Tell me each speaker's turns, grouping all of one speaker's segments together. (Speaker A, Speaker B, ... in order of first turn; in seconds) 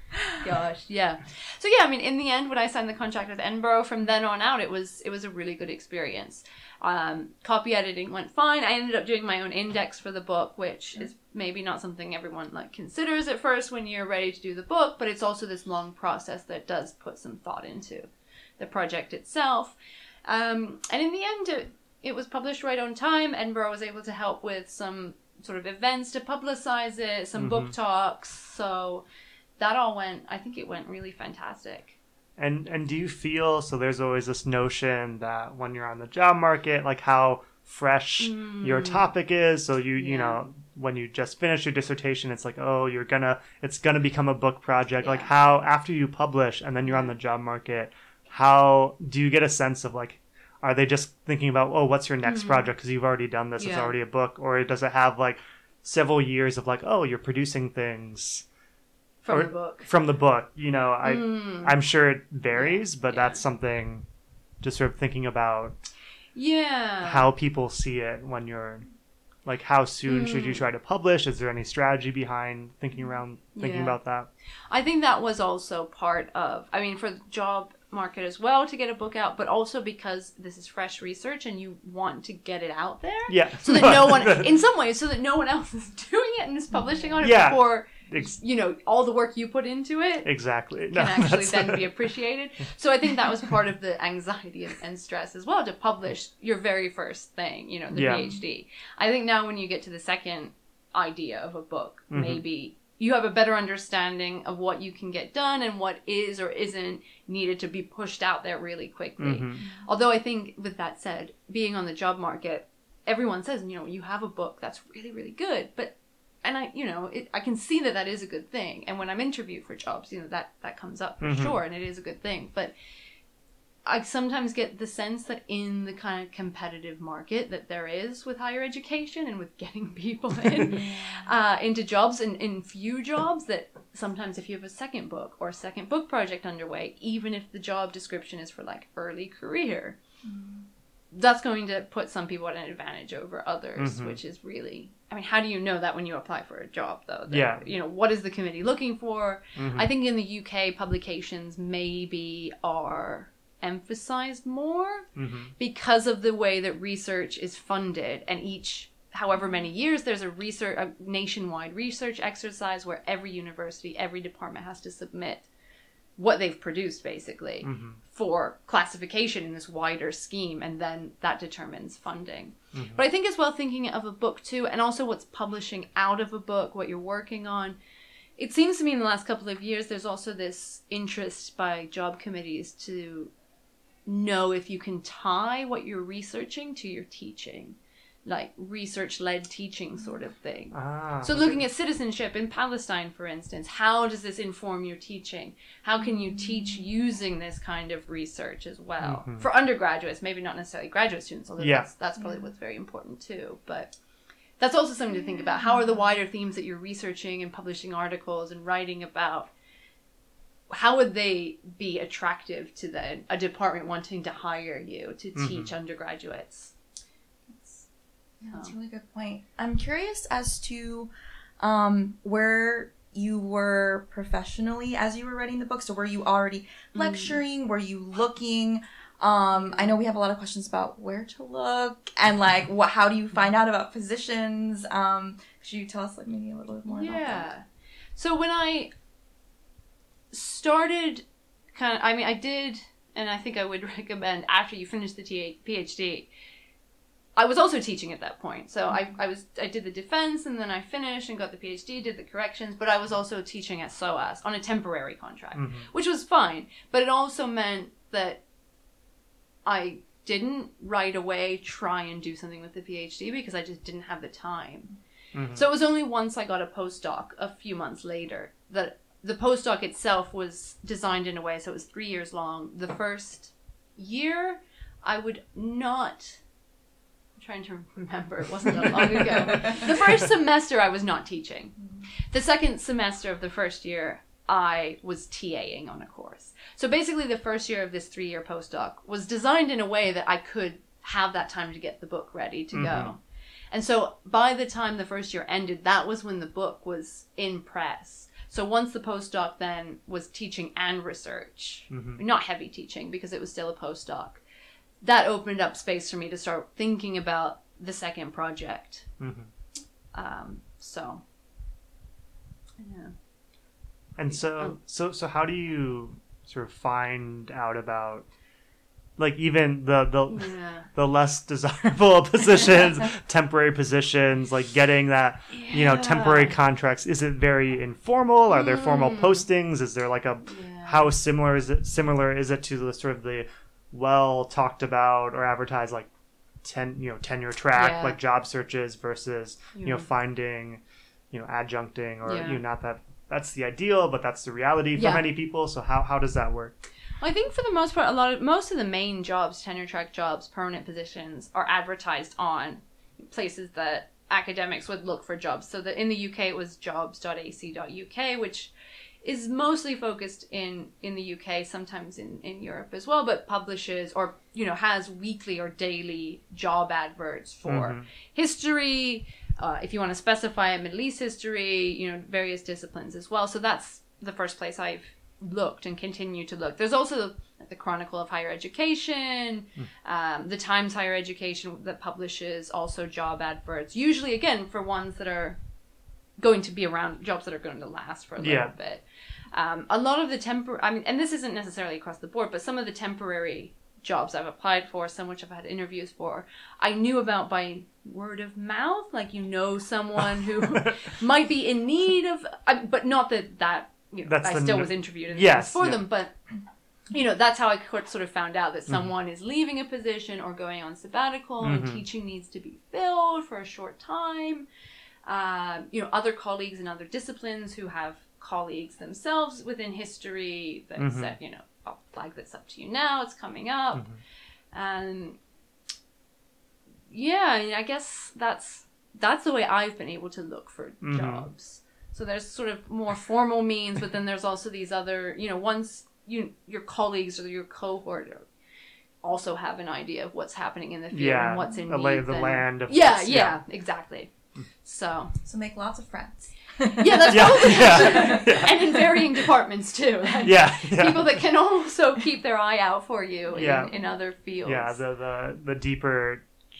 Speaker A: 0.3-29.0, 29.6-32.0, 38.2-39.1, 40.0-40.4, 45.0-45.3, 46.9-47.1, 52.3-52.6, 53.6-54.0, 59.2-59.9, 61.0-61.7, 62.5-63.4, 66.3-67.3, 70.1-70.6, 73.5-74.0, 74.7-90.4, 90.9-122.7, 123.8-140.0, 141.1-165.5, 166.2-177.8, 178.4-183.3, 184.1-203.9, 204.6-209.5, 210.7-216.7, 227.0-227.4, 236.9-237.6, 238.2-238.9, 240.3-246.3, 247.3-258.4, 259.6-264.9, 265.5-276.4, 277.4-281.8, 282.3-293.2, 293.7-304.4, 305.0-309.1, 310.1-311.2, 312.8-313.1, 314.3-314.8, 320.3-320.9, 325.5-326.6, 328.5-329.4, 330.5-331.1, 337.7-338.2, 339.7-340.1, 342.2-342.6, 344.9-345.3, 347.2-358.7, 359.2-385.6, 386.4-406.3, 407.1-414.7, 415.2-424.0, 424.7-425.4, 427.1-438.5, 439.2-445.3, 446.9-455.0
Speaker B: 27.3-27.7, 32.4-58.4, 59.3-64.0, 64.6-65.8, 67.0-68.8, 69.5-74.3, 83.3-84.5, 87.2-88.4, 90.2-92.1, 97.9-98.3, 102.1-102.4, 109.2-109.7, 121.2-121.6, 143.8-144.2, 147.3-147.7, 149.6-149.9, 155.2-155.5, 167.6-168.0, 172.7-173.0, 190.7-191.6, 199.0-199.4, 201.6-201.9, 215.3-215.7, 255.5-255.9, 265.3-265.6, 292.7-293.1, 301.9-302.2, 309.2-309.5, 314.2-318.3, 319.2-336.1, 336.6-346.7, 367.6-368.0, 388.4-388.7, 404.3-406.0, 411.6-412.0, 421.0-421.4, 423.9-424.2, 431.0-431.5, 441.1-443.6, 447.2-449.2, 450.4-451.4, 453.5-453.9, 454.6-456.4
Speaker C: 130.9-131.2, 140.2-140.6, 217.5-217.8, 218.4-237.5, 445.4-448.4